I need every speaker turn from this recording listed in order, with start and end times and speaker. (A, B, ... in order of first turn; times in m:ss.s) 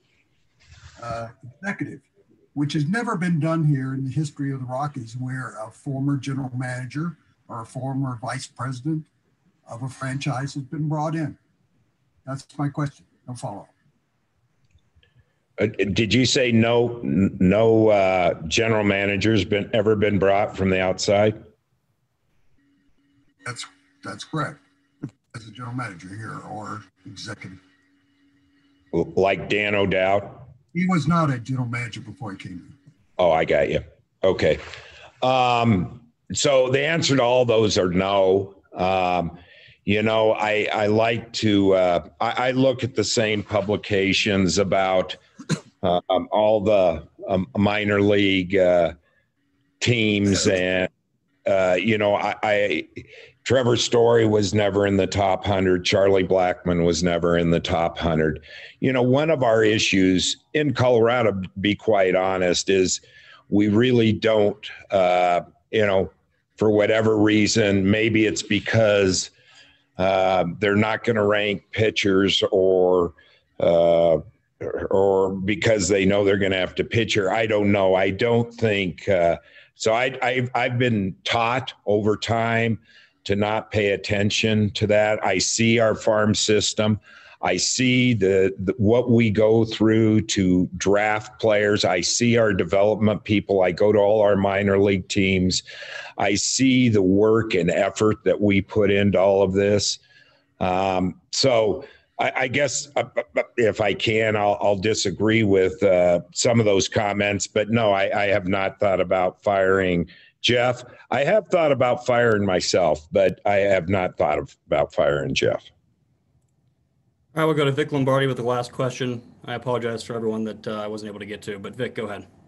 0:01.0-0:09.1 A
0:09.7-0:11.4 A
0:12.2-0:13.7 A
0:15.6-0:21.4 B
0:23.4-0:24.6 A
0:25.3-0:27.6 A
0:28.9-0:30.5 B
0:30.7-0:32.8 A
0:33.2-0:34.6 B
0:35.2-0:45.2 B
0:45.8-0:49.0 B
0:49.8-0:50.9 B
0:51.4-1:09.3 B
1:10.0-1:35.6 B
1:36.2-1:40.0 B
1:40.6-1:55.7 B
1:57.3-2:02.3 C